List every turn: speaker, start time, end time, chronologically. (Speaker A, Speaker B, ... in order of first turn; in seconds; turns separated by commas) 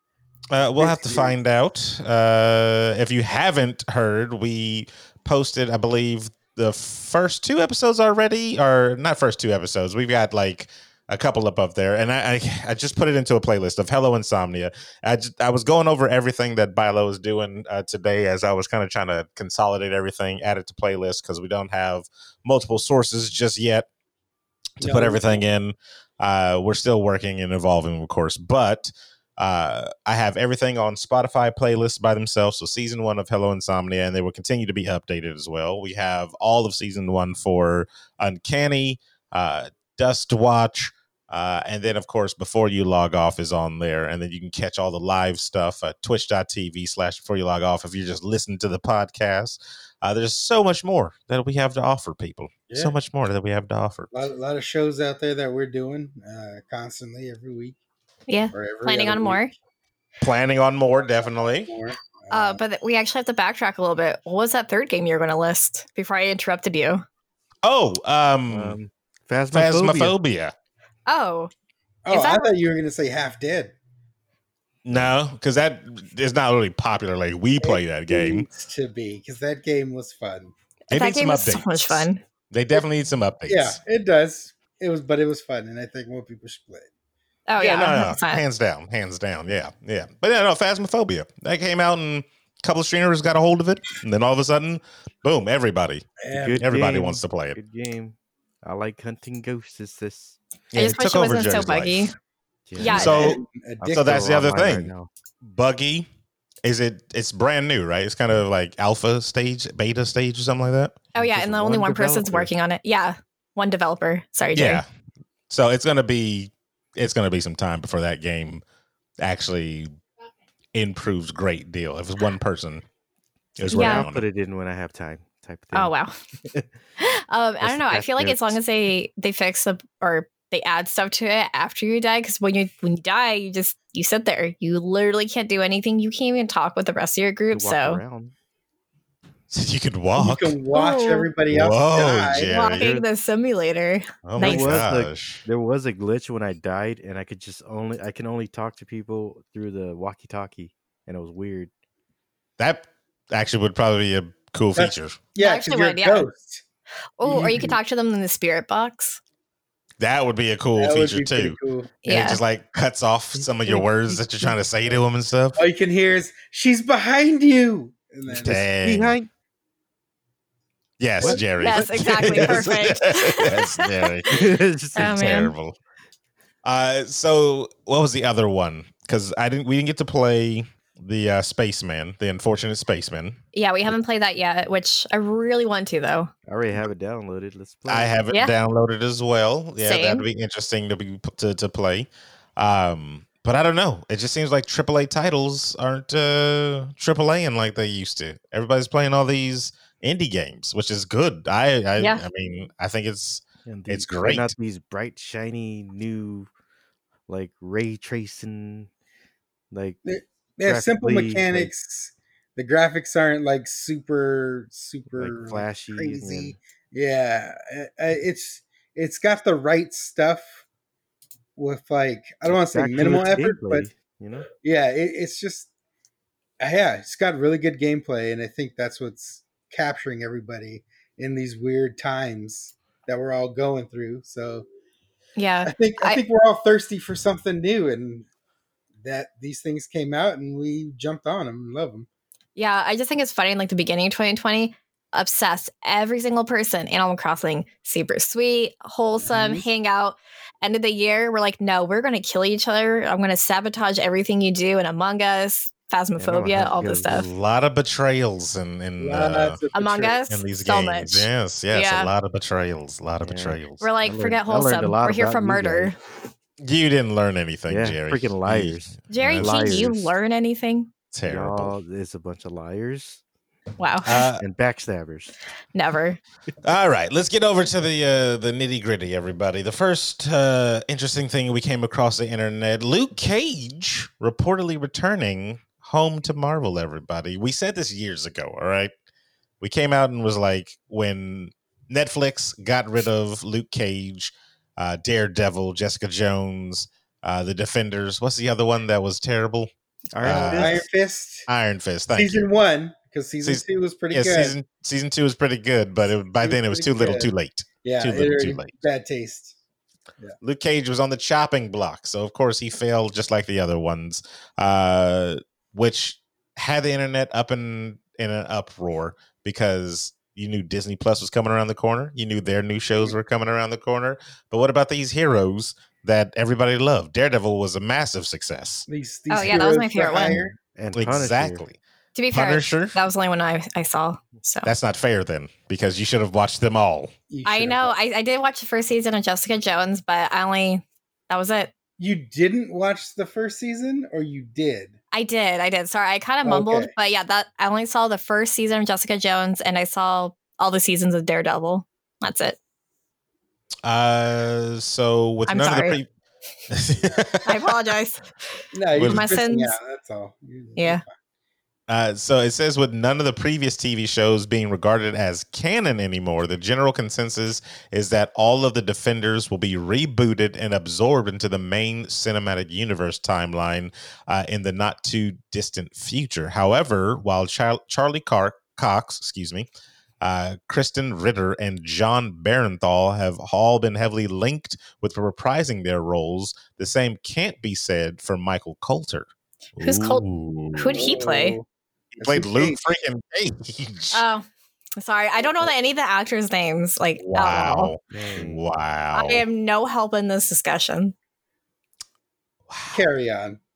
Speaker A: 0.5-23.9, Speaker B: 0.8-1.4, Speaker A: 24.8-54.1, Speaker B: 24.8-25.4, Speaker B: 52.7-53.0, Speaker B: 54.1-57.8, Speaker C: 58.3-59.5, Speaker B: 58.5-59.4, Speaker A: 60.2-61.7, Speaker B: 61.6-62.6, Speaker C: 62.3-67.0, Speaker A: 67.6-68.8, Speaker D: 68.5-70.2, Speaker A: 69.5-70.5, Speaker C: 71.1-71.5, Speaker B: 72.1-73.8, Speaker C: 72.1-72.5, Speaker A: 74.8-78.5, Speaker D: 74.9-75.1, Speaker B: 77.6-80.5, Speaker C: 80.9-82.2, Speaker A: 80.9-83.8, Speaker B: 83.5-86.9, Speaker C: 87.5-88.4, Speaker A: 87.6-97.6, Speaker B: 96.2-96.6, Speaker D: 96.3-100.4, Speaker A: 100.7-102.1, Speaker C: 100.7-102.1, Speaker D: 102.7-105.1, Speaker C: 102.8-103.4, Speaker A: 102.8-104.9, Speaker B: 103.0-104.4, Speaker A: 105.4-106.1, Speaker A: 106.6-111.0, Speaker C: 111.2-114.8, Speaker D: 111.2-112.5, Speaker A: 114.5-114.8, Speaker A: 115.5-118.6, Speaker A: 119.2-119.9, Speaker A: 120.7-122.8, Speaker A: 123.6-124.2, Speaker D: 123.7-125.9, Speaker C: 123.7-124.1, Speaker C: 125.7-126.1, Speaker C: 127.0-138.0, Speaker D: 127.6-128.6, Speaker D: 137.5-138.3, Speaker A: 139.5-140.6, Speaker B: 140.2-142.5, Speaker C: 140.7-141.3, Speaker A: 141.5-142.9, Speaker C: 142.5-144.9, Speaker D: 142.8-143.1, Speaker A: 144.2-145.4, Speaker D: 144.4-151.7, Speaker A: 152.6-155.2, Speaker B: 154.8-156.6, Speaker C: 155.4-156.3, Speaker C: 157.2-159.2, Speaker B: 157.2-157.8, Speaker A: 160.0-165.6, Speaker B: 160.8-161.9, Speaker C: 162.0-162.4, Speaker D: 163.4-164.5, Speaker B: 165.6-168.6, Speaker A: 168.3-169.2, Speaker D: 168.7-169.3, Speaker A: 171.0-175.8, Speaker B: 171.2-171.7, Speaker D: 171.2-172.7, Speaker C: 171.4-174.1, Speaker D: 174.3-175.3, Speaker C: 175.0-175.5, Speaker A: 176.6-183.4, Speaker C: 183.5-186.3, Speaker D: 186.5-188.2, Speaker A: 187.9-204.5, Speaker C: 189.8-190.2, Speaker C: 202.0-202.2, Speaker D: 203.7-206.5, Speaker D: 207.3-208.9, Speaker D: 209.7-210.0, Speaker B: 210.1-220.6, Speaker D: 210.6-211.7, Speaker D: 215.1-216.6, Speaker B: 221.6-223.9, Speaker D: 222.5-224.5, Speaker B: 224.6-225.7, Speaker B: 226.6-234.7, Speaker C: 235.4-236.2, Speaker B: 235.7-238.3, Speaker B: 239.0-242.1, Speaker C: 242.6-257.3, Speaker B: 249.2-249.7, Speaker D: 256.2-257.1, Speaker A: 257.1-259.6, Speaker B: 259.0-260.2, Speaker C: 259.7-262.1, Speaker A: 260.3-263.8, Speaker D: 263.2-265.9, Speaker C: 263.8-266.0, Speaker A: 266.6-269.5, Speaker D: 267.7-270.1, Speaker C: 269.1-270.9, Speaker A: 271.1-271.8, Speaker D: 271.3-273.2, Speaker C: 273.8-274.2, Speaker A: 274.0-274.4, Speaker D: 274.4-275.3, Speaker C: 275.8-276.2, Speaker A: 276.6-288.9, Speaker A: 289.6-299.7, Speaker D: 300.1-300.9, Speaker A: 300.2-300.9, Speaker B: 300.2-301.5, Speaker A: 301.5-302.5, Speaker B: 302.1-304.5, Speaker A: 303.4-308.8, Speaker B: 306.4-307.3, Speaker B: 307.8-309.6, Speaker A: 310.4-328.9, Speaker B: 328.9-330.6, Speaker C: 329.3-330.5, Speaker D: 330.8-331.6, Speaker A: 330.9-331.8, Speaker C: 332.1-334.7, Speaker A: 332.3-333.0, Speaker A: 334.6-337.1, Speaker B: 337.3-337.9, Speaker C: 337.4-341.7, Speaker B: 342.0-345.0, Speaker C: 345.1-352.6, Speaker B: 346.4-346.9, Speaker A: 353.9-356.1, Speaker C: 355.5-356.0, Speaker A: 356.7-357.7, Speaker C: 357.4-358.2, Speaker B: 358.7-361.1, Speaker A: 358.9-359.3, Speaker C: 359.0-359.8, Speaker C: 360.8-361.0, Speaker A: 361.9-379.7, Speaker A: 380.2-391.1, Speaker C: 389.8-391.6, Speaker B: 390.9-391.7, Speaker A: 392.2-394.2, Speaker B: 392.2-392.8, Speaker C: 394.1-394.5, Speaker C: 395.0-397.9, Speaker A: 397.2-399.4, Speaker D: 398.1-398.6, Speaker C: 399.1-401.1, Speaker A: 402.7-403.0, Speaker B: 402.9-403.6